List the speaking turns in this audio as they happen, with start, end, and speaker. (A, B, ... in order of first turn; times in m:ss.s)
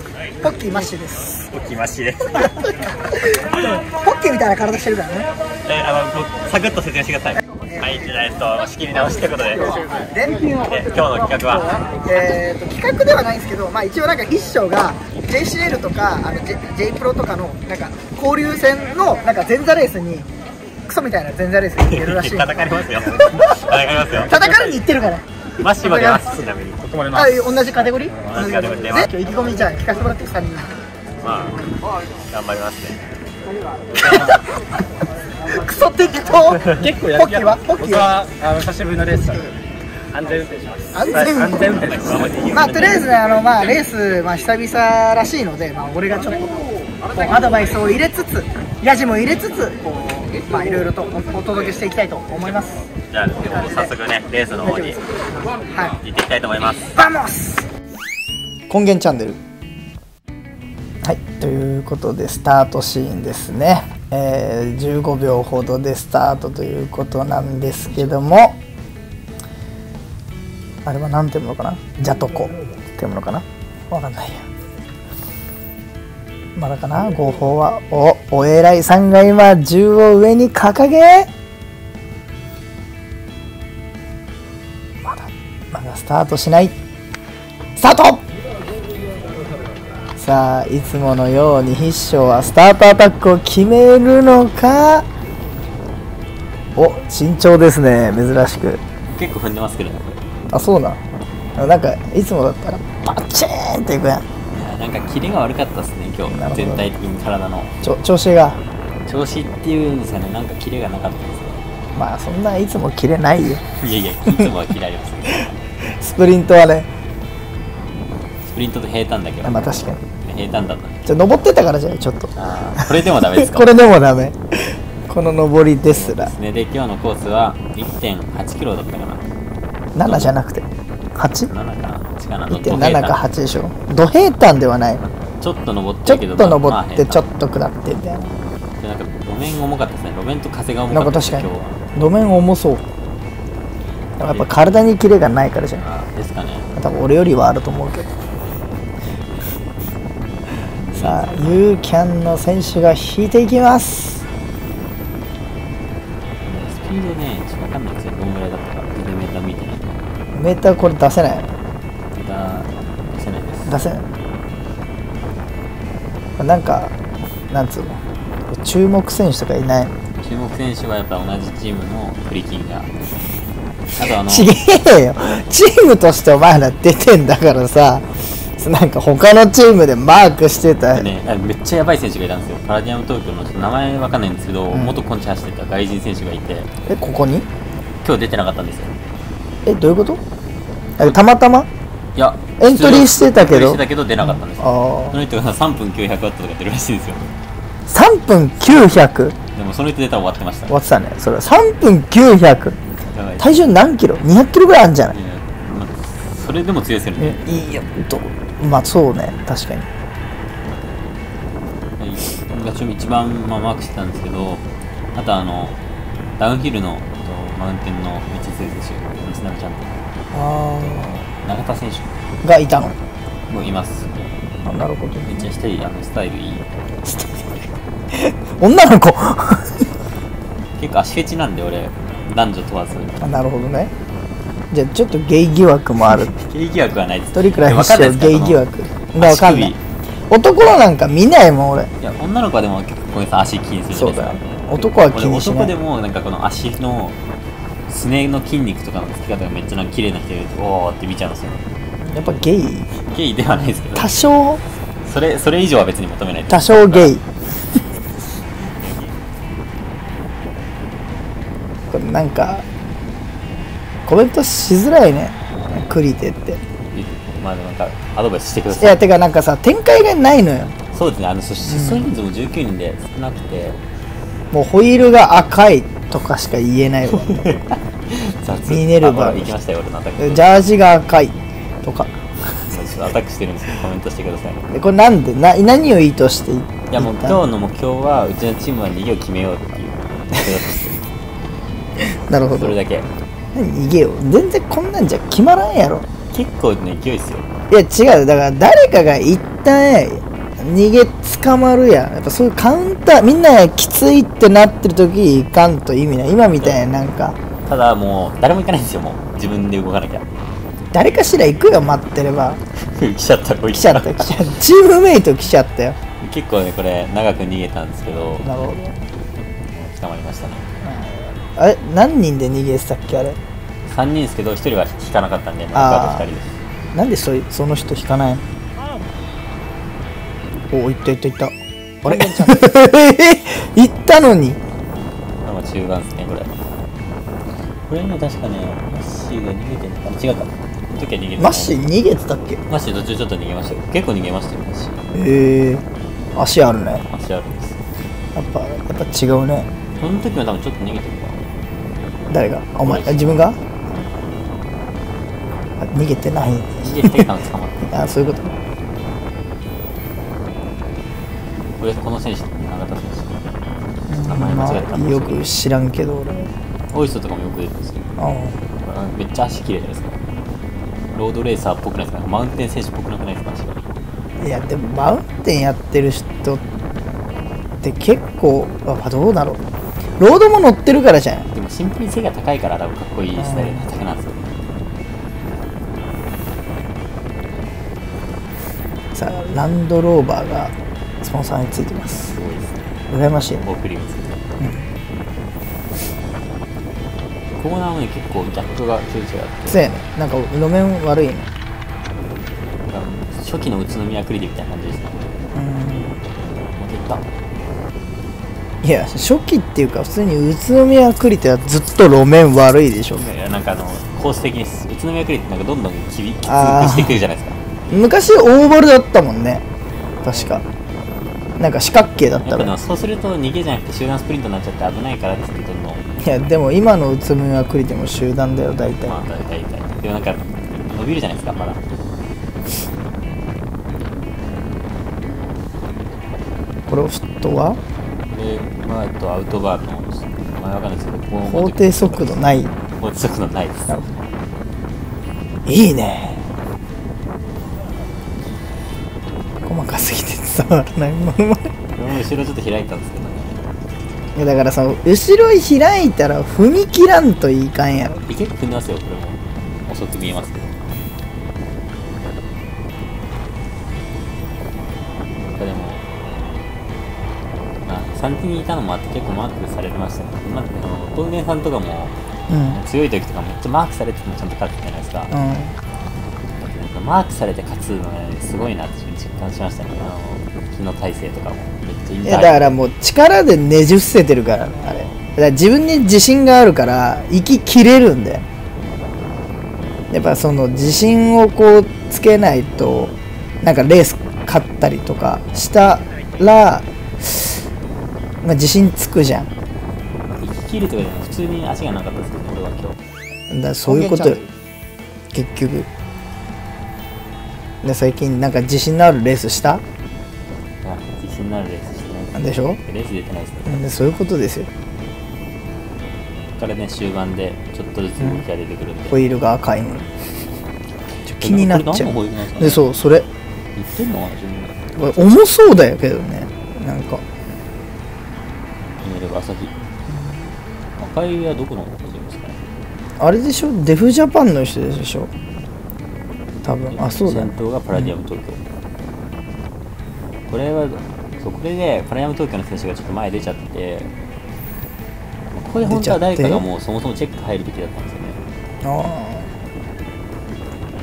0:00.4-0:01.4 A
0:01.4-0:03.8 B
0:03.1-0:05.3 A
0:05.6-0:11.9 B
0:09.7-0:10.7 A
0:11.9-0:20.3 A
0:20.8-0:25.2 A
0:21.8-0:24.7 B
0:25.6-0:27.0 B
0:25.8-0:26.3 A
0:26.9-0:27.3 C
0:27.1-0:30.7 A
0:28.2-0:29.1 B
0:31.2-0:31.7 B
0:32.3-0:33.0 B
0:34.0-0:34.4 B
0:34.0-0:34.4 A
0:35.4-0:38.2 A
0:36.9-0:37.3 C
0:38.0-0:39.5 C
0:40.1-0:40.9 C
0:40.9-0:41.8 A
0:41.5-0:43.2 B
0:42.5-0:52.8 A
0:52.9-0:55.3 B
0:54.6-0:55.0 A
0:55.7-0:56.0 A
0:56.0-0:57.0 B
0:56.9-0:57.6 A
0:58.7-0:59.4 A
1:01.0-1:08.6 A
1:10.8-1:14.4 A
1:16.6-1:21.3 A
1:25.0-1:26.7 A
1:27.8-1:28.2 A
1:30.2-1:35.1 A
1:36.8-1:38.8 A
1:39.0-1:40.2 B
1:40.5-1:41.0 A
1:41.6-1:44.2 A
1:44.5-1:47.7 B
1:46.3-1:46.8 A
1:47.8-1:48.6 A
1:49.1-1:51.6 B
1:51.9-1:53.6 A
1:53.8-1:55.5 B
1:55.8-1:56.9 A
1:58.4-2:01.0 B
1:59.4-2:00.0 A
2:01.0-2:02.3 A
2:02.3-2:03.7 B
2:03.2-2:06.3 A
2:05.8-2:09.3 B
2:09.9-2:11.5 A
2:10.0-2:10.3 B
2:11.4-2:13.2 B
2:12.5-2:15.0 A
2:15.0-2:17.2 B
2:16.0-2:18.3 A
2:18.8-2:21.8 B
2:20.9-2:22.8 A
2:24.2-2:25.8 A
2:24.2-2:24.7 B
2:25.7-2:26.7 B
2:26.8-2:28.1 A
2:30.5-2:31.5 B
2:31.0-2:34.2 A
2:36.4-2:40.0 B
2:40.3-2:41.5 A
2:42.1-2:43.8 B
2:43.6-2:44.0 A
2:46.4-2:46.9 A
2:47.5-2:49.9 A
2:50.2-2:52.9 B
2:53.9-2:54.5 B
2:54.2-3:01.1 A
3:00.9-3:06.7 B
3:04.7-3:05.0 A
3:06.8-3:07.5 A
3:08.0-3:08.9 B
3:09.6-3:10.2 A
3:11.0-3:11.7 A
3:12.1-3:17.3 B
3:12.6-3:15.2 A
3:17.9-3:19.4 A
3:19.5-3:20.7 B
3:20.7-3:22.8 A
3:23.0-3:23.7 B
3:23.4-3:25.1 A
3:25.1-3:27.6 B
3:27.2-3:29.9 A
3:32.0-3:35.8 B
3:36.4-3:40.0 B
3:40.3-3:41.3 A
3:40.9-3:42.1 B
3:42.4-3:43.0 A
3:43.5-3:44.3 B
3:44.6-3:45.3 A
3:45.2-3:46.6 B
3:47.0-3:49.9 A
3:50.8-3:53.2 B
3:53.2-3:53.9 A
3:54.7-3:56.3 A
3:56.1-3:58.6 B
3:57.3-3:59.7 A
3:59.1-3:59.8 B
4:00.3-4:01.9 A
4:02.0-4:07.2 B
4:03.9-4:05.7 A
4:07.9-4:11.6 B
4:12.0-4:12.9 A
4:13.0-4:14.1 B
4:13.8-4:14.6 A
4:15.0-4:17.2 B
4:16.5-4:17.2 A
4:18.6-4:19.2 B
4:21.9-4:22.6 A
4:24.0-4:26.6 A
4:26.9-4:29.1 B
4:28.7-4:30.8 A
4:30.9-4:33.8 B
4:31.6-4:32.1 A
4:34.5-4:37.5 A
4:37.2-4:40.7 B
4:38.7-4:39.5 A
4:40.2-4:42.1 A
4:42.7-4:44.6 B
4:44.7-4:47.4 A
4:46.9-4:51.0 B
4:52.3-4:52.7 A
4:52.4-4:53.1 B
4:53.5-4:56.0 A
4:56.3-4:57.5 B
4:57.7-5:07.4 A
5:07.6-5:10.2 B
5:10.9-5:12.6 A
5:12.8-5:14.5 B
5:13.7-5:16.0 A
5:16.2-5:18.6 B
5:18.4-5:19.0 A
5:19.7-5:20.7 B
5:20.8-5:23.4 A
5:23.8-5:26.6 B
5:25.7-5:26.2 A
5:26.9-5:28.4 A
5:30.7-5:34.6 A
5:32.0-5:32.7 B
5:35.4-5:36.6 B
5:37.9-5:41.8 B
5:41.4-5:42.6 A
5:42.7-5:45.0 B
5:45.1-5:45.8 A
5:46.3-5:47.0 A
5:47.1-5:47.8 B
5:48.3-5:49.7 A
5:50.0-5:51.4 B
5:52.3-5:53.6 A
5:52.8-5:53.6 B
5:55.8-5:57.2 A
5:56.8-5:58.0 B
5:57.9-5:58.5 A
6:01.8-6:03.4 B
6:04.1-6:06.5 A
6:04.1-6:05.5 B
6:06.9-6:08.0 B
6:08.2-6:08.6 A
6:08.8-6:10.2 B
6:11.1-6:13.8 B
6:14.4-6:16.6 A
6:17.8-6:19.6 A
6:20.2-6:21.5 A
6:21.5-6:24.6 B
6:23.4-6:23.8 A
6:29.1-6:32.3 A
6:32.2-6:32.9 B
6:33.1-6:33.6 A
6:33.6-6:34.4 B
6:34.6-6:34.8 A
6:37.6-6:39.9 B
6:39.7-6:41.5 A
6:42.8-6:45.2 B
6:45.5-6:46.2 A
6:46.7-6:47.2 B
6:48.8-6:53.2 A
6:53.1-6:57.6 B
6:56.4-6:57.2 A
6:57.9-6:59.6 A
7:00.2-7:00.6 A
7:00.3-7:00.6 B
7:01.6-7:02.7 A
7:02.4-7:06.0 B
7:06.2-7:09.2 A
7:09.0-7:11.8 B
7:16.9-7:17.8 A
7:18.3-7:22.4 B
7:21.4-7:22.7 A
7:23.0-7:24.0 B
7:25.6-7:26.5 A
7:29.6-7:31.7 A
7:32.0-7:33.6 B
7:34.3-7:38.2 A
7:38.2-7:40.7 B
7:45.5-7:46.0 B
7:47.8-7:52.1 B
7:52.5-7:52.8 A
7:52.7-7:55.3 B
7:55.3-7:55.7 A
7:56.6-8:02.8 B
8:02.2-8:08.4 A
8:04.8-8:05.2 B
8:10.1-8:17.6 A
8:18.4-8:19.5 A
8:20.3-8:23.0 B
8:23.5-8:24.4 A
8:23.8-8:24.5 B
8:25.3-8:25.9 A
8:27.8-8:29.8 A
8:30.8-8:34.0 B
8:32.4-8:32.8 A
8:33.7-8:34.7 A
8:36.6-8:39.2 B
8:39.1-8:40.1 A
8:41.3-8:43.3 A
8:41.4-8:42.9 B
8:43.8-8:44.9 B
8:45.0-8:47.2 A
8:49.0-8:49.7 B
8:51.0-8:52.6 B
8:53.2-8:55.3 A
8:56.6-8:57.5 A
8:56.9-8:58.6 B
9:00.5-9:04.1 B
9:05.5-9:08.4 B
9:05.8-9:06.6 A
9:08.8-9:09.5 A